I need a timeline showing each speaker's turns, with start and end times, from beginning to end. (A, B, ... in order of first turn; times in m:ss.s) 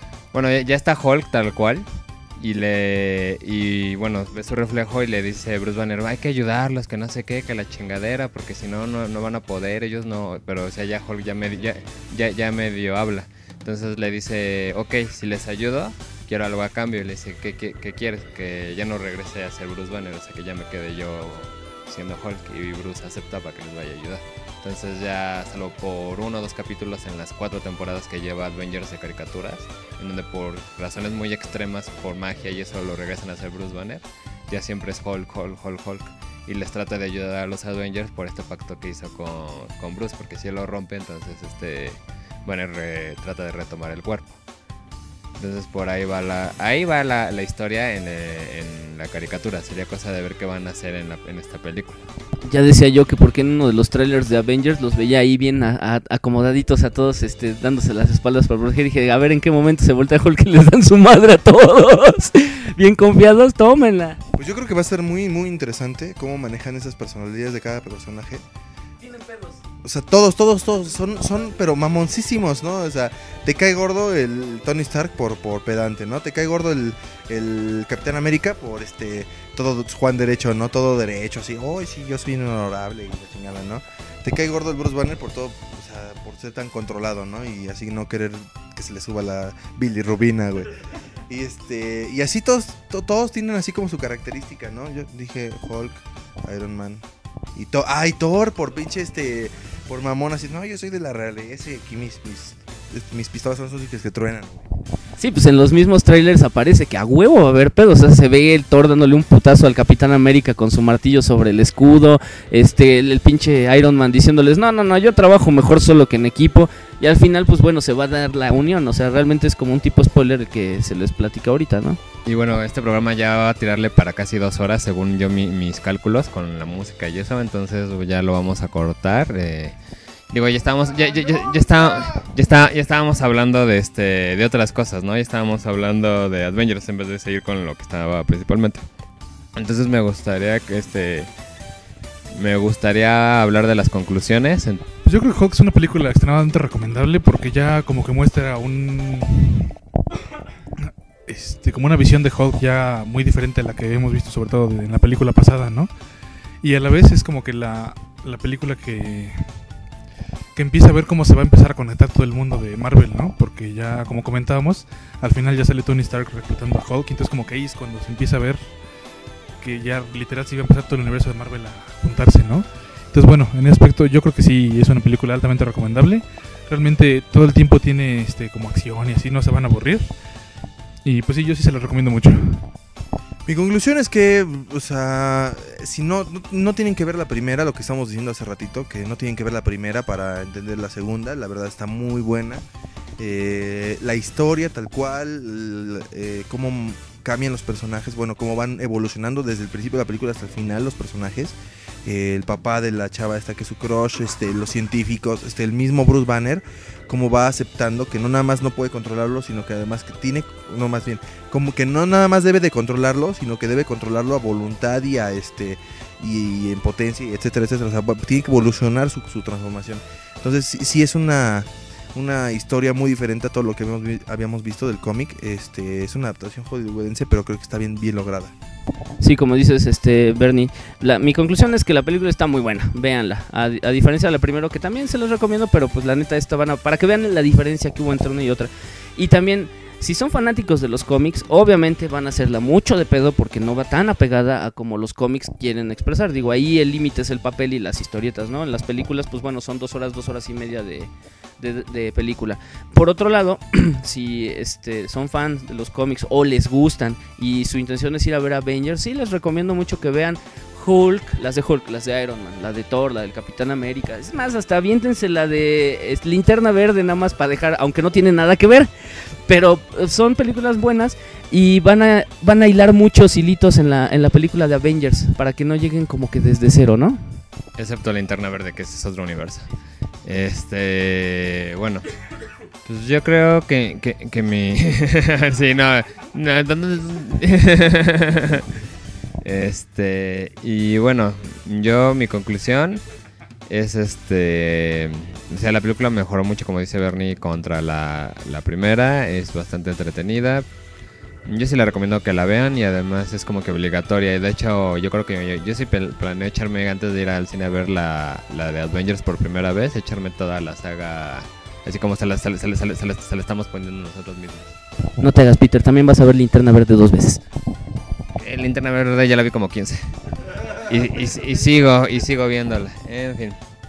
0:00.3-0:44.4 A
0:45.4-0:52.0 A
0:52.4-1:04.2 B
1:04.3-1:08.4 C
1:09.0-1:09.6 B
1:09.8-1:44.7 C
1:45.2-2:02.0 B
2:02.2-2:09.7 A
2:10.3-2:18.9 A
2:19.6-2:21.3 A
2:22.3-2:24.8 A
2:25.0-2:29.7 D
2:30.8-2:35.9 D
2:36.6-2:39.5 D
2:40.5-2:48.7 D
2:49.6-3:00.1 D
3:01.0-3:02.7 D
3:03.4-3:12.6 C
3:13.2-3:48.5 C
3:49.2-4:28.9 B
4:29.5-4:37.4 B
4:37.8-4:39.7 A
4:40.2-4:42.1 A
4:42.8-4:48.7 A
4:49.4-4:53.0 A
4:53.7-5:00.7 A
5:01.4-5:14.8 A
5:15.2-5:17.4 B
5:18.3-5:20.1 A
5:20.7-5:23.6 A